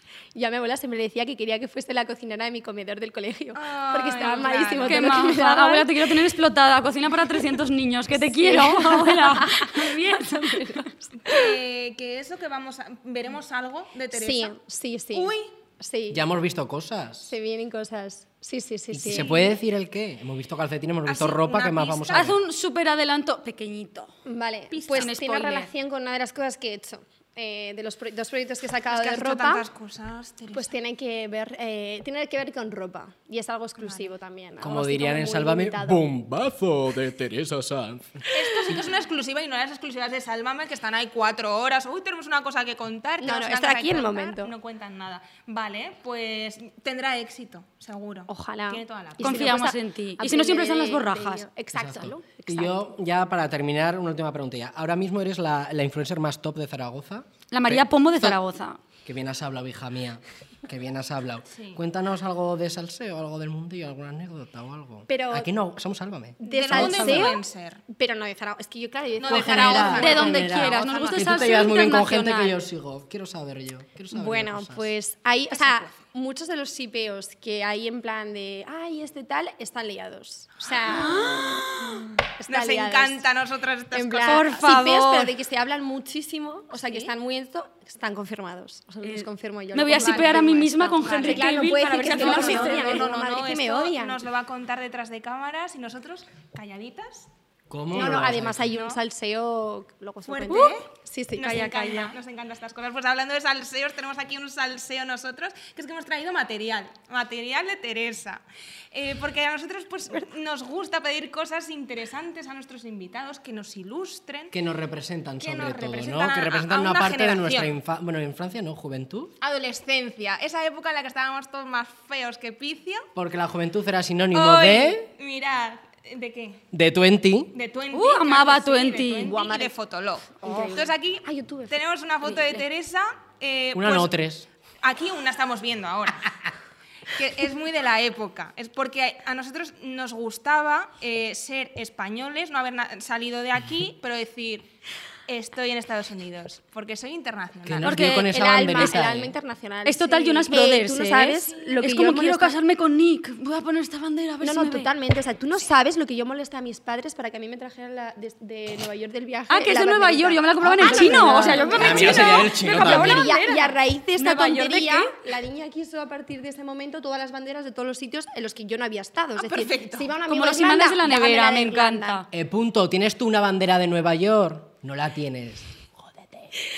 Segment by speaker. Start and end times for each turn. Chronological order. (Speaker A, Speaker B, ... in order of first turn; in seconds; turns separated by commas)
Speaker A: 0.3-6.1, Speaker B: 3.5-5.3, Speaker C: 4.8-10.9, Speaker A: 8.1-11.5, Speaker B: 11.2-14.6, Speaker A: 14.1-16.2, Speaker B: 15.1-15.5, Speaker D: 16.1-17.4, Speaker A: 17.2-19.6, Speaker D: 18.9-22.4, Speaker B: 21.1-22.3, Speaker C: 22.1-24.1, Speaker A: 24.3-29.6, Speaker B: 24.7-25.1, Speaker C: 24.9-25.7, Speaker B: 28.9-30.7, Speaker A: 30.5-36.0, Speaker B: 33.8-34.1, Speaker D: 34.6-38.8, Speaker B: 38.3-49.6, Speaker A: 43.2-44.5, Speaker A: 48.3-52.8, Speaker C: 49.2-51.5, Speaker D: 51.7-58.4, Speaker C: 57.5-58.8, Speaker D: 59.0-67.4, Speaker B: 61.5-61.8, Speaker A: 65.1-65.5, Speaker A: 66.4-71.0, Speaker B: 66.4-67.8, Speaker B: 69.2-71.2, Speaker D: 69.3-74.9, Speaker C: 70.0-72.6, Speaker A: 74.1-83.2, Speaker B: 75.5-75.9, Speaker C: 80.9-82.0, Speaker B: 81.0-81.4, Speaker B: 82.5-84.8, Speaker A: 83.9-94.2, Speaker C: 84.2-85.3, Speaker B: 86.7-87.1, Speaker C: 89.0-93.1, Speaker B: 89.9-97.3, Speaker D: 97.7-98.7, Speaker A: 97.9-102.2, Speaker B: 97.9-99.0, Speaker B: 100.2-108.4, Speaker C: 100.5-100.7, Speaker B: 108.9-114.5, Speaker D: 114.5-119.3, Speaker B: 115.4-117.7, Speaker B: 119.4-123.1, Speaker D: 123.1-125.1, Speaker B: 124.3-126.6, Speaker D: 126.7-127.5, Speaker B: 127.5-134.1, Speaker C: 127.9-129.4, Speaker A: 129.2-129.7, Speaker A: 130.4-132.6, Speaker D: 133.7-134.5, Speaker B: 134.8-136.4, Speaker B: 137.1-144.7, Speaker B: 145.3-148.0, Speaker D: 147.6-149.3, Speaker C: 147.8-149.0, Speaker A: 148.3-152.5, Speaker C: 149.8-154.9, Speaker B: 151.4-151.8, Speaker A: 154.4-172.2, Speaker C: 159.5-165.1, Speaker D: 160.6-163.3, Speaker B: 169.3-170.1, Speaker C: 170.3-172.2, Speaker D: 172.3-176.5